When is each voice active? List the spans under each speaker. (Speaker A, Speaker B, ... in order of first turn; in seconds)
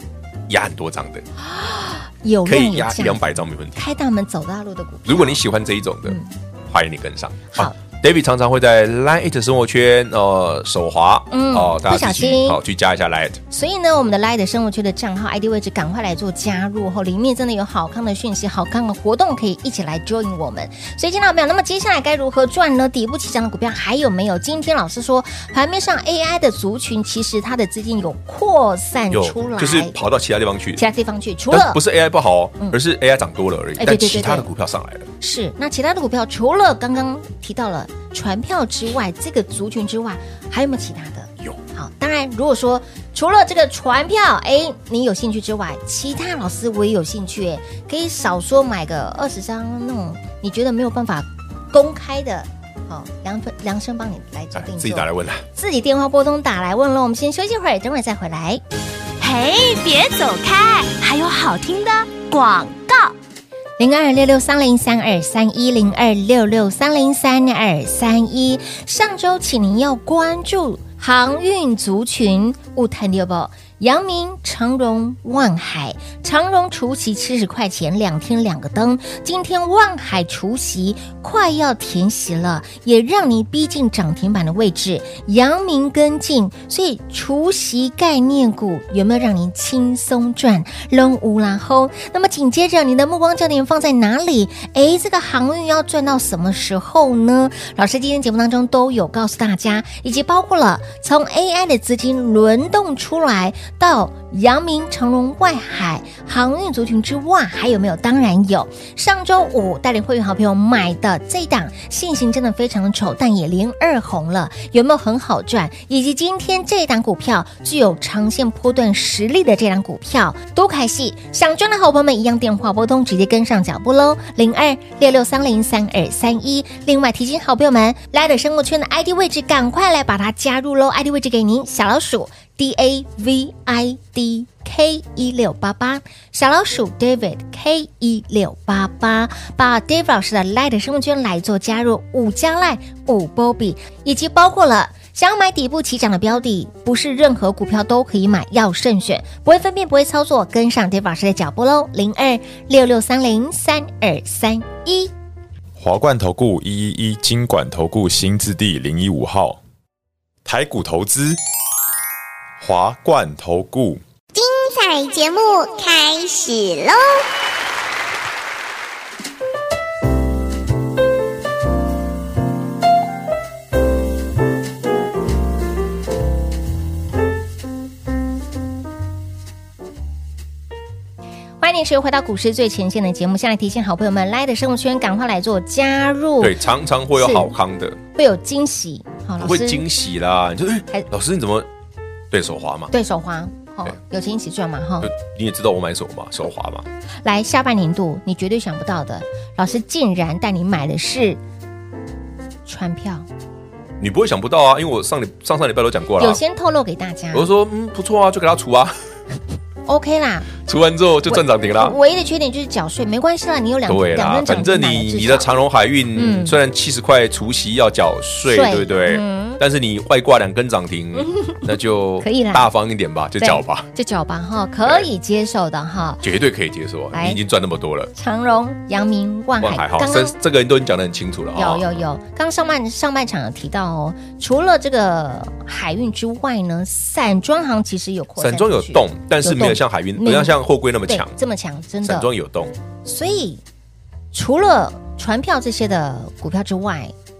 Speaker A: 0.5-1.2, 2.4-3.8, 5.0-6.2, 6.7-13.4, 29.1-30.8, 31.5-35.1, 54.5-55.4, 186.4-188.0, 189.4-191.7, 192.3-192.9, 195.0-196.9, 204.0-206.4, 207.3-208.9, 210.6-211.9, 213.9-223.9, 226.2-228.1, 229.6-231.9, 238.4-241.3, 242.0-242.7
Speaker B: 1.4-3.2, 3.8-5.4, 6.0-6.3, 11.3-12.6, 13.5-29.9, 30.8-31.8, 33.8-34.5, 35.2-58.6, 63.8-155.1, 181.6-186.6, 187.2-187.5, 188.1-189.8, 192.9-195.1, 197.2-201.4, 202.7-203.3, 206.2-207.5, 209.8-210.5, 211.3-215.5, 216.1-216.6, 218.4-219.6, 222.2-222.7, 223.4-226.2, 227.1-227.4, 228.2-230.3, 231.5-242.3, 243.0-243.6, 244.3-247.1
Speaker C: 59.2-63.1
Speaker D: 155.8-159.6, 160.4-161.4, 162.6-164.0
Speaker E: 164.3-167.2